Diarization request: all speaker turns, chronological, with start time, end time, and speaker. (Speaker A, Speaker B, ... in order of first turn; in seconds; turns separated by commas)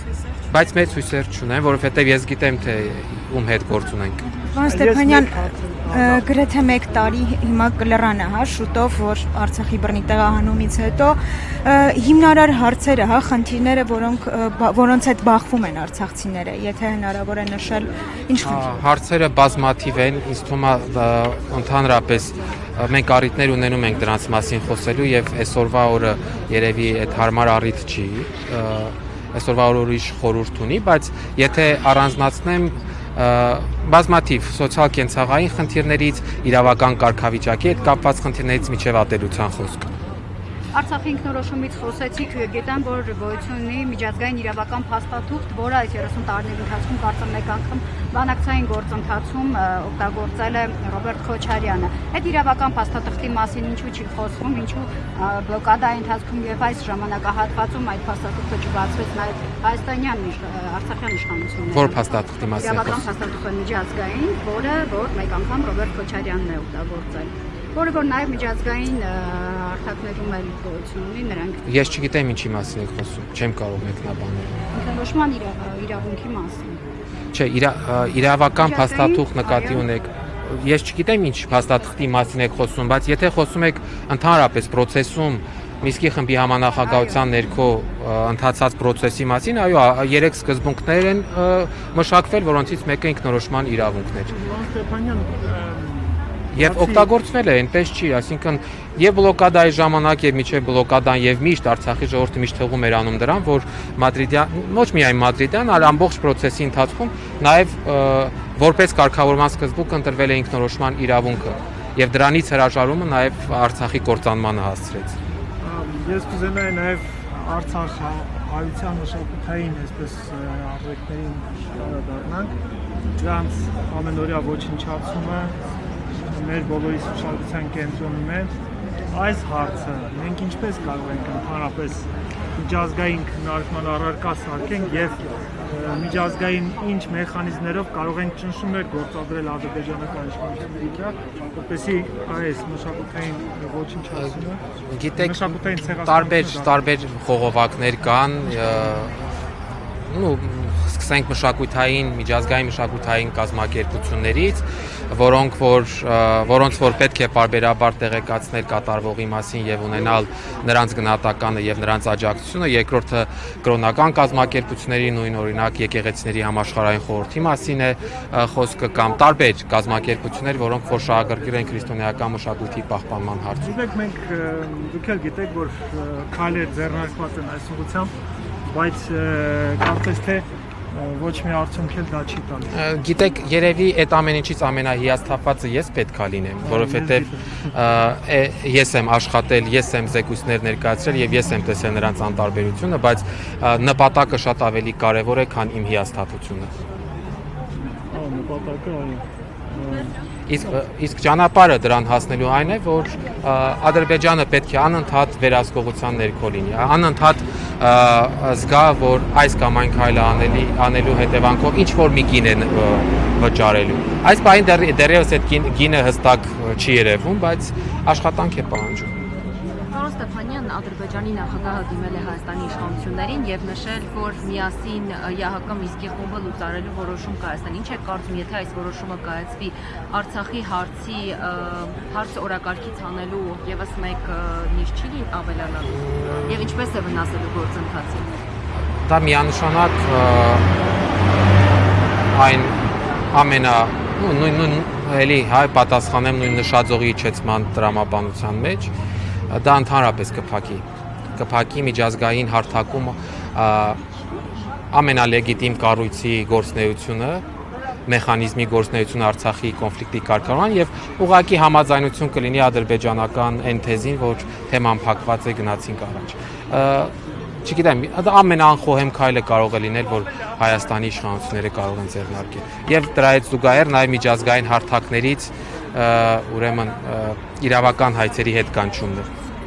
Speaker A: 0.5-4.3, Speaker B: 4.4-18.7, Speaker C: 4.6-6.3, Speaker A: 18.4-39.9, Speaker D: 40.7-62.0, Speaker A: 61.7-63.1, Speaker D: 62.6-71.6, Speaker A: 71.7-74.5, Speaker D: 74.7-76.8, Speaker A: 77.3-94.3, Speaker D: 78.6-79.8, Speaker C: 94.3-97.1, Speaker A: 96.5-115.1, Speaker C: 115.6-122.5, Speaker C: 123.2-125.6, Speaker C: 126.3-128.5, Speaker C: 129.1-144.6, Speaker A: 144.1-149.1, Speaker C: 145.2-147.1, Speaker A: 150.1-173.8, Speaker C: 173.6-178.1, Speaker C: 178.6-182.7, Speaker A: 182.7-196.7, Speaker C: 186.6-187.6, Speaker C: 198.1-200.8, Speaker A: 200.5-219.1, Speaker E: 219.9-238.4, Speaker A: 239.1-240.7, Speaker A: 242.3-248.9, Speaker A: 249.5-250.8, Speaker A: 251.4-254.0, Speaker A: 254.9-257.4, Speaker A: 258.1-267.1, Speaker A: 267.6-279.3